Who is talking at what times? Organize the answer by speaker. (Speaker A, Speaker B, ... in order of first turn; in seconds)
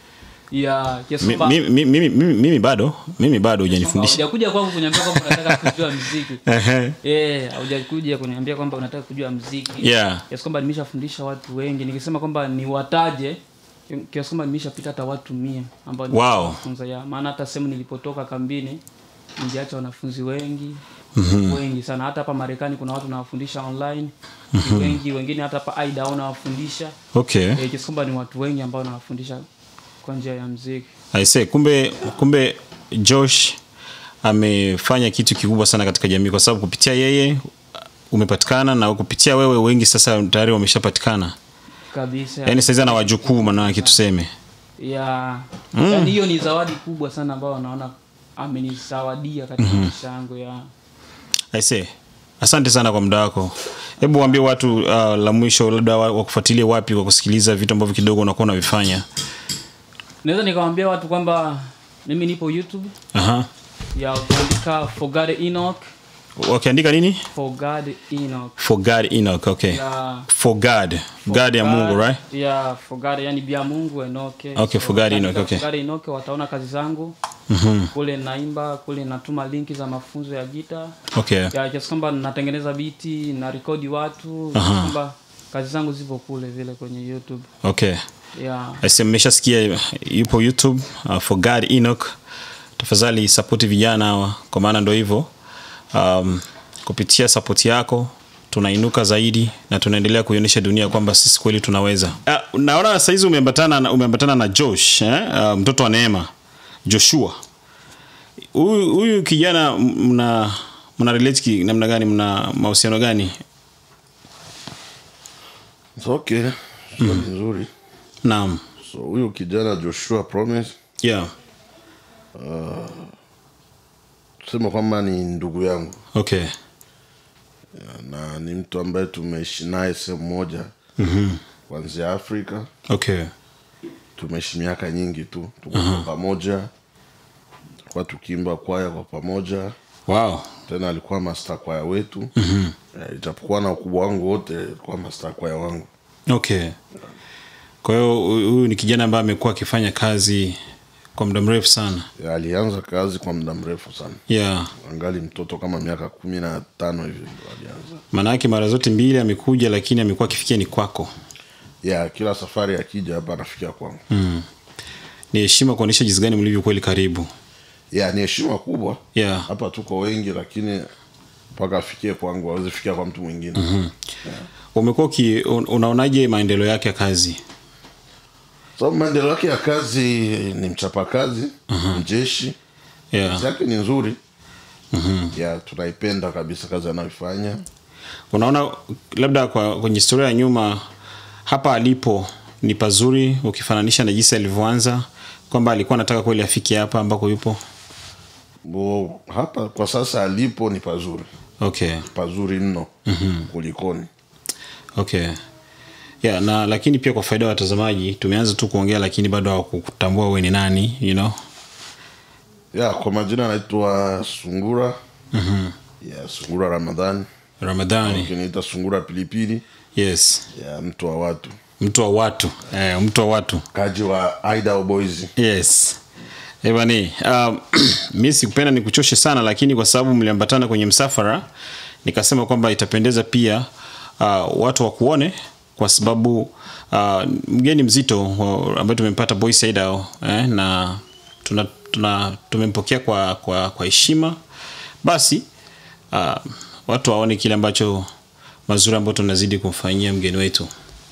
Speaker A: 0.5-1.6, 3.8-6.4, 7.0-18.8, 19.4-20.8, 21.4-26.9, 27.5-29.4, 30.0-30.9, 41.9-44.0, 44.8-50.7, 54.0-54.7, 60.2-62.9, 63.9-65.9, 67.3-68.5, 69.7-70.3, 71.2-77.2, 77.9-81.0, 81.5-87.5, 88.3-88.8
Speaker B: 1.2-4.2, 4.9-5.8, 6.5-7.0, 9.8-10.2, 16.1-16.6, 21.1-21.6, 24.5-25.0, 27.1-27.6, 31.1-33.6, 34.2-37.4, 38.1-41.3, 42.5-44.3, 45.7-46.1, 49.6-49.9, 51.5-59.0, 63.1-63.5, 66.4-67.2, 68.6-72.2, 74.5-75.6, 77.5-77.9, 81.1-81.5, 84.5-84.9, 87.6-88.0, 88.8-92.2, 92.8-95.3, 95.9-106.3, 106.8-107.4, 108.5-113.4, 117.0-117.3, 118.2-118.6, 121.0-121.3, 126.1-126.5, 131.0-131.4, 132.9-133.3, 135.7-136.1, 140.1-140.5, 142.3-142.7, 146.3-146.8, 147.8-150.6, 151.1-152.1, 154.3-154.7, 158.1-161.1, 164.1-164.4, 165.3-167.3, 169.1-169.5, 173.5-173.9, 174.7-177.4, 181.7-182.0, 183.1-183.4, 184.9-185.3, 188.3-190.8, 191.4-197.6, 201.6-202.1, 203.1-203.5, 204.9-205.4, 206.2-211.3, 215.3-215.7, 217.6-218.3, 219.9-220.4, 221.8-223.6, 225.4-226.0, 226.6-231.4, 232.0-233.7, 234.2-244.4, 245.0-245.4, 246.1-248.1, 248.7-250.7
Speaker C: 116.0-117.7, 118.8-120.7, 122.3-123.1, 124.4-126.0, 127.7-130.7, 131.7-132.7, 134.2-136.7, 137.9-139.7, 140.7-142.3, 142.9-145.9, 152.2-154.2, 154.8-158.0, 161.8-164.0, 167.9-170.9, 171.5-173.6, 178.8-182.6, 183.2-184.2, 185.3-187.6, 198.6-201.3, 202.1-202.9, 203.4-204.1, 212.7-215.0, 216.0-217.3, 218.0-219.6, 220.5-221.6, 223.7-225.3